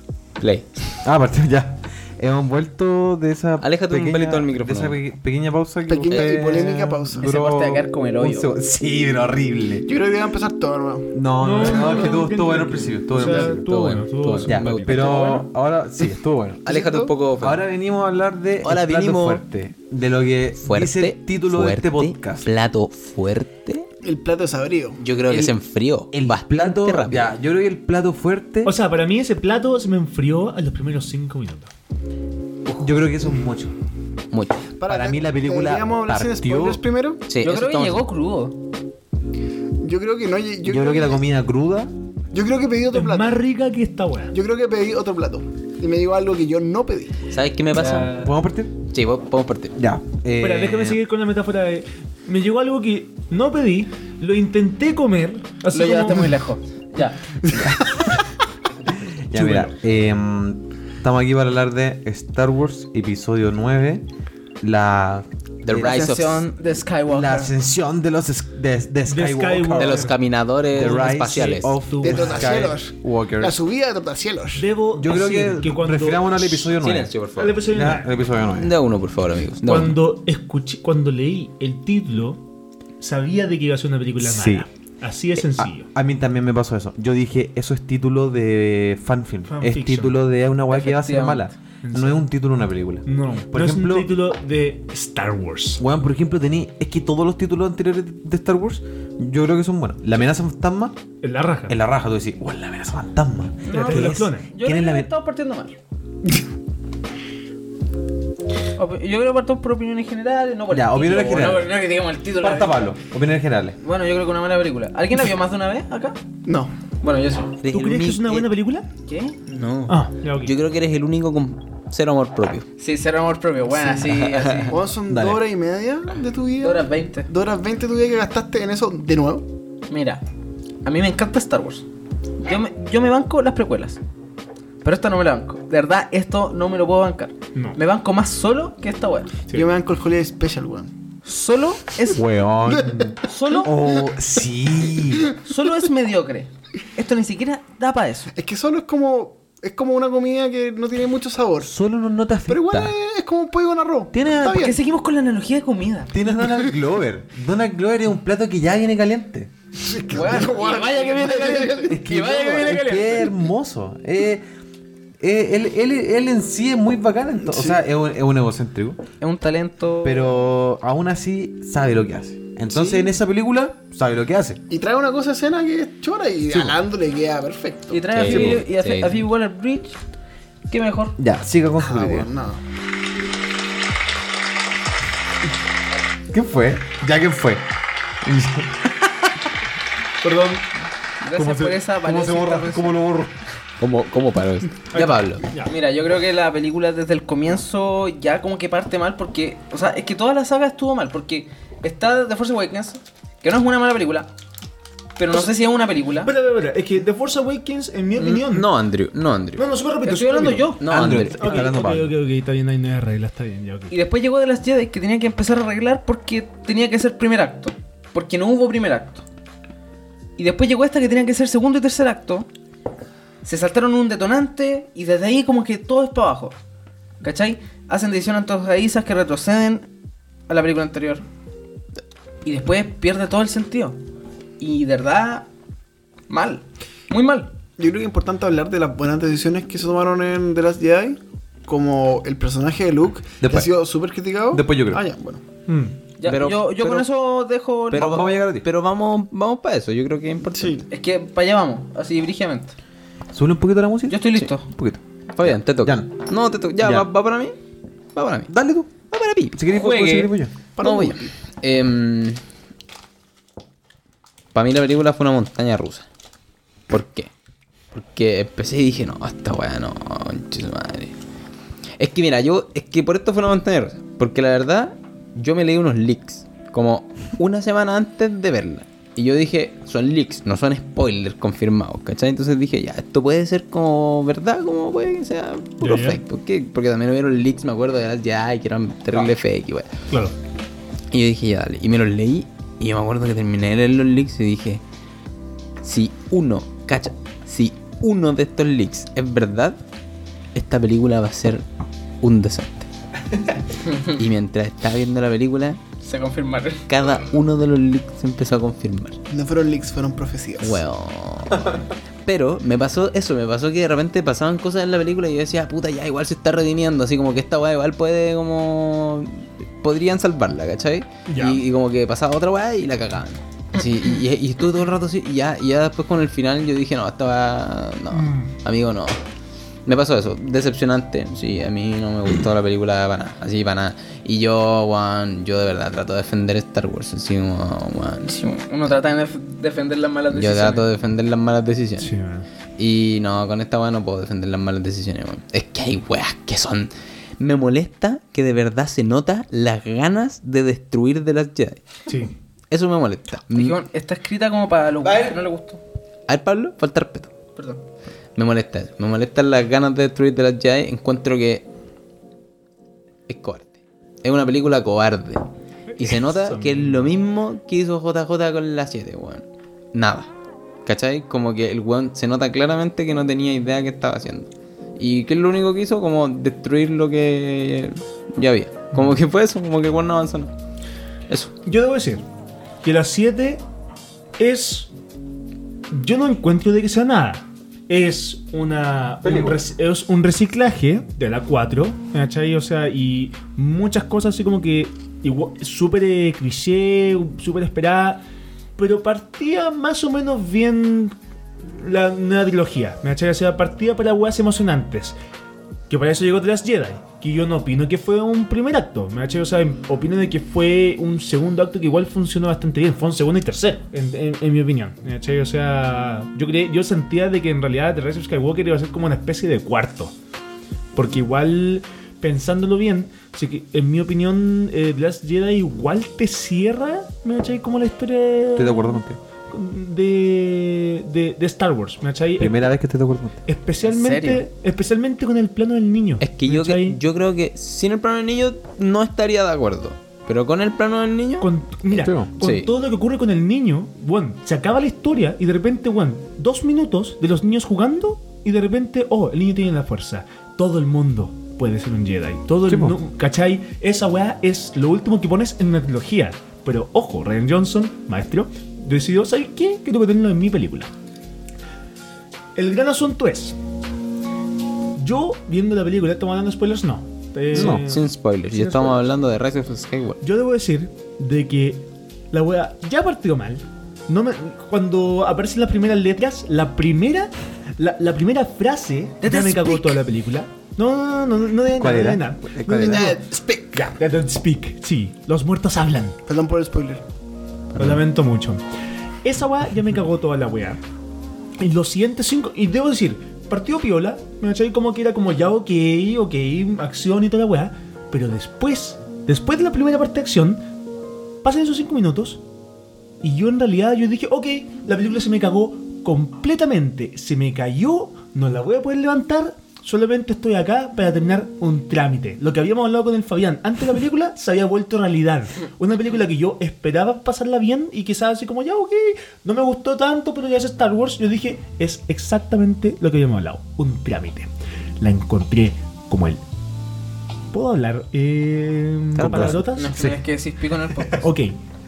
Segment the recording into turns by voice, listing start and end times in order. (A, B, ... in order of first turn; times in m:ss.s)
0:00.4-0:01.0 A
0:01.0-0:09.9 B
0:03.6-0:05.0 A
0:05.8-0:07.3 C
0:06.1-0:06.6 A
0:07.2-0:08.5 D
0:09.8-0:11.1 C
0:11.1-0:13.6 B
0:11.4-0:15.4 E
0:13.2-0:15.4 A
0:14.4-0:16.7 B
0:16.6-0:17.1 C
0:16.6-0:17.6 A
0:17.4-0:22.5 B
0:18.6-0:19.4 A
0:20.6-0:23.9 A
0:24.0-0:25.0 C
0:25.0-0:27.3 A
0:26.1-0:28.7 B
0:28.6-0:31.7 E
0:32.8-0:33.7 B
0:34.3-0:34.6 A
0:34.8-0:37.2 C
0:34.8-0:36.8 B
0:37.3-0:38.0 A
0:37.4-0:38.6 D
0:39.8-0:41.2 C
0:40.6-0:41.9 B
0:42.3-0:43.4 C
0:42.9-0:44.4 E
0:44.3-0:47.2 C
0:47.3-0:48.3 A
0:47.8-0:48.3 D
0:48.1-0:48.7 B
0:48.8-0:49.7 A
0:49.7-0:51.0 B
0:50.4-0:56.4 E
0:55.7-0:57.2 D
0:57.5-0:58.1 B
0:59.3-1:04.0 B
0:59.3-0:59.7 E
1:04.6-1:06.0 B
1:05.6-1:06.5 A
1:05.7-1:07.5 D
1:07.1-1:10.1 B
1:09.1-1:10.1 E
1:09.8-1:11.8 A
1:10.7-1:13.6 B
1:11.8-1:12.6 E
1:12.0-1:14.6 C
1:14.5-1:16.7 E
1:14.9-1:18.8 B
1:16.8-1:17.6 A
1:17.4-1:18.1 E
1:18.5-1:20.0 A
1:19.6-1:22.4 E
1:23.0-1:25.9 E
1:24.2-1:24.7 B
1:25.4-1:34.1 B
1:29.5-1:30.2 E
1:30.7-1:31.5 D
1:31.8-1:32.2 E
1:33.0-1:35.8 E
1:35.8-1:41.0 B
1:41.2-1:41.8 E
1:41.7-1:45.1 B
1:43.6-1:45.8 D
1:43.7-1:44.5 E
1:48.8-1:52.9 D
1:50.7-1:51.7 B
1:52.4-1:53.8 B
1:53.8-1:56.2 D
1:56.4-1:56.7 C
1:57.0-1:57.6 D
1:57.6-1:58.5 A
1:57.7-1:58.9 E
1:59.0-1:59.4 D
1:59.5-2:02.7 A
1:59.9-2:00.5 E
2:02.8-2:04.8 D
2:04.0-2:04.7 A
2:04.7-2:09.5 C
2:05.1-2:05.4 B
2:06.6-2:07.3 D
2:09.9-2:10.2 D
2:10.8-2:11.8 D
2:12.4-2:14.0 D
2:14.8-2:19.5 D
2:19.5-2:20.9 C
2:21.2-2:22.2 D
2:22.1-2:25.3 B
2:22.7-2:23.1 C
2:23.2-2:23.7 D
2:25.4-2:28.3 D
2:28.3-2:31.7 C
2:31.6-2:33.0 B
2:32.5-2:34.8 C
2:34.1-2:34.7 B
2:34.5-2:36.1 D
2:36.1-2:39.5 B
2:39.8-2:42.0 C
2:40.1-2:43.3 D
2:41.9-2:44.4 B
2:45.2-2:49.0 B
2:47.4-2:47.8 C
2:49.2-2:50.2 D
2:50.0-2:54.6 B
2:54.7-2:58.1 C
2:56.5-2:56.8 B
2:57.9-3:00.0 D
2:58.1-2:59.2 A
2:58.3-2:58.6 B
3:00.7-3:01.2 D
3:01.2-3:02.3 B
3:01.8-3:02.6 C
3:06.3-3:07.6 B
3:08.2-3:09.3 B
3:10.2-3:10.6 E
3:11.2-3:13.0 D
3:11.3-3:13.4 B
3:13.8-3:15.4 A
3:14.9-3:15.7 E
3:15.6-3:24.3 D
3:25.2-3:26.3 D
3:26.2-3:28.7 E
3:28.2-3:29.6 A
3:29.6-3:30.8 E
3:30.0-3:30.9 D
3:30.8-3:31.7 A
3:30.9-3:32.1 B
3:31.3-3:34.0 E
3:33.9-3:39.2 D
3:40.4-3:42.5 D
3:43.4-3:46.6 D
3:47.2-3:49.9 D
3:50.5-3:51.2 D
3:52.4-3:54.0 D
3:54.6-3:55.5 D
3:56.3-3:57.5 D
3:57.8-4:05.4 C
4:03.4-4:03.7 B
4:04.5-4:05.0 B
4:05.7-4:06.0 E
4:06.2-4:08.2 D
4:06.2-4:07.1 A
4:07.9-4:10.8 A
4:07.9-4:08.7 B
4:10.5-4:10.8 C
4:10.9-4:12.7 D
4:13.3-4:16.1 B
4:14.1-4:14.6 D
4:15.3-4:17.6 A
4:16.8-4:17.1 B
4:18.1-4:18.5 A
4:18.5-4:18.9 B
4:19.1-4:20.3 A
4:19.5-4:20.5 B
4:20.8-4:21.3 C
4:20.8-4:22.4 A
4:24.5-4:26.0 A
4:26.9-4:27.3 A
4:27.9-4:31.1 A
4:32.0-4:49.9 A
4:45.8-4:46.2 E
4:50.1-4:50.3 E
4:51.1-4:54.8 A
4:55.8-4:59.8 A
5:00.5-5:01.6 A
5:02.2-5:02.9 A
5:04.0-5:05.8 A
5:06.0-5:06.8 D
5:06.9-5:09.2 A
5:09.3-5:10.8 C
5:10.6-5:29.2 A
5:21.3-5:21.6 E
5:28.1-5:28.5 E
5:29.8-5:38.4 A
5:38.2-5:40.9 D
5:40.3-5:42.1 A
5:42.0-5:42.5 E
5:42.8-5:51.8 A
5:52.1-5:52.3 E
5:52.7-5:53.8 A
5:53.5-5:55.8 D
5:55.0-5:55.4 B
5:56.3-5:57.3 A
5:57.6-5:57.8 D
5:58.4-6:01.6 A
6:03.3-6:05.4 A
6:05.9-6:07.1 E
6:06.0-6:10.3 A
6:10.8-6:20.5 A
6:21.6-6:22.2 E
6:22.8-6:23.6 E
6:24.4-6:24.9 E
6:25.9-6:38.2 E
6:29.2-6:29.6 B
6:38.8-6:41.1 E
6:41.7-6:45.2 E
6:45.9-7:00.1 E
7:00.9-7:12.7 E
7:08.5-7:09.2 B
7:12.4-7:13.4 B
7:13.5-7:17.0 E
7:13.8-7:14.4 D
7:16.2-7:21.5 A
7:21.4-7:40.9 E
7:21.9-7:22.3 B
7:22.3-7:22.7 A
7:32.7-7:33.0 B
7:42.6-7:43.6 E
7:45.0-7:49.0 E
7:47.5-7:50.2 A
7:47.5-7:47.8 B
7:50.2-8:03.2 E
7:59.2-8:00.0 D
8:01.7-8:03.2 B
8:02.7-8:03.8 C
8:03.7-8:06.2 E
8:06.3-8:07.0 C
8:07.8-8:08.6 E
8:09.2-8:10.8 E
8:11.6-8:20.6 E
8:21.4-8:22.4 E
8:23.2-8:46.4 E
8:47.5-8:49.9 E
8:49.2-8:49.6 A
8:49.2-8:50.2 B
8:49.7-8:51.2 D
8:51.1-8:51.6 E